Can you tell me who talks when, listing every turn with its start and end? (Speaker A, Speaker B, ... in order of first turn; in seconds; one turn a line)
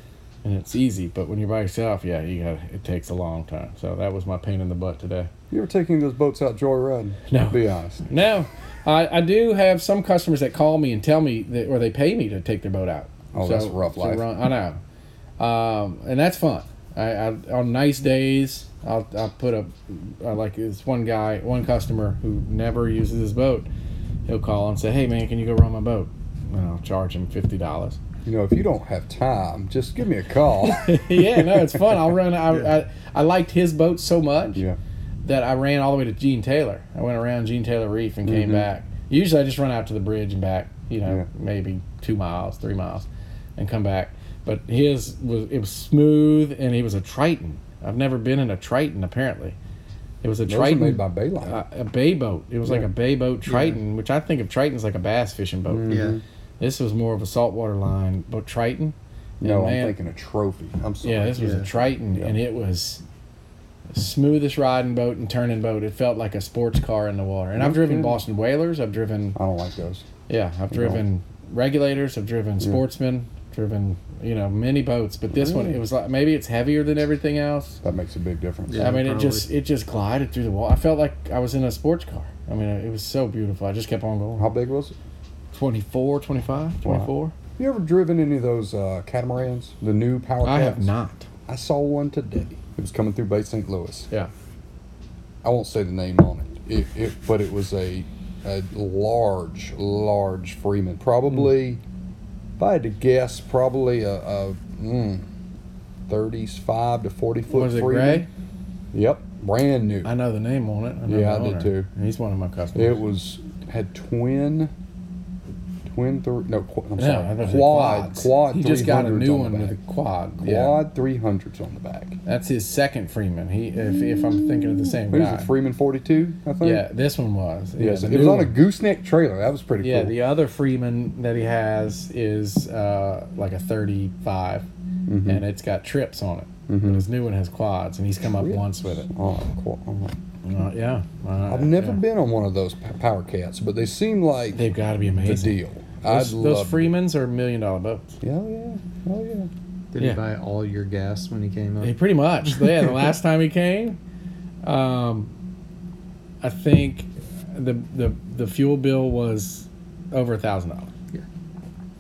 Speaker A: 0.4-5.3
Speaker B: 5.5-8.0
Speaker A: 7.3-14.8
Speaker B: 13.3-14.2
Speaker A: 15.4-23.7
Speaker A: 24.3-28.0
Speaker B: 28.2-32.1
Speaker A: 30.6-34.6
Speaker A: 35.2-43.0
Speaker B: 38.2-38.7
Speaker A: 43.6-49.6
Speaker A: 50.2-56.0
Speaker B: 50.5-51.6
Speaker C: 53.5-53.8
Speaker B: 55.7-56.2
Speaker C: 55.9-56.1
Speaker A: 56.6-60.0
Speaker B: 59.4-61.5
Speaker A: 61.0-63.0
Speaker C: 61.4-61.7
Speaker A: 63.9-69.4
Speaker B: 67.5-68.2
Speaker B: 69.3-70.0
Speaker A: 70.3-77.8
Speaker B: 70.7-71.0
Speaker B: 75.3-75.8
Speaker B: 77.8-79.0
Speaker C: 78.7-79.5
Speaker A: 78.8-84.5
Speaker B: 84.4-84.9
Speaker A: 85.5-87.3
Speaker B: 86.8-90.9
Speaker A: 90.4-91.3
Speaker B: 91.5-94.1
Speaker B: 95.4-101.8
Speaker B: 102.6-105.3
Speaker B: 106.1-108.2
Speaker A: 107.5-108.3
Speaker B: 108.9-110.1
Speaker A: 110.0-113.0
Speaker B: 111.1-111.9
Speaker B: 112.7-114.7
Speaker B: 115.8-119.8
Speaker A: 117.0-120.8
Speaker B: 120.4-122.2
Speaker A: 122.2-125.5
Speaker B: 123.9-126.8
Speaker A: 126.6-128.6
Speaker B: 127.8-130.1
Speaker A: 129.8-134.7
Speaker B: 135.1-135.4
Speaker A: 135.2-139.1
Speaker B: 136.7-137.0
Speaker B: 138.4-140.1
Speaker A: 140.4-142.0
Speaker B: 141.5-144.6
Speaker A: 144.5-148.2
Speaker B: 145.2-146.9
Speaker B: 148.2-149.5
Speaker C: 149.9-151.9
Speaker A: 151.8-154.0
Speaker C: 152.5-152.9
Speaker A: 154.6-155.3
Speaker A: 156.4-160.9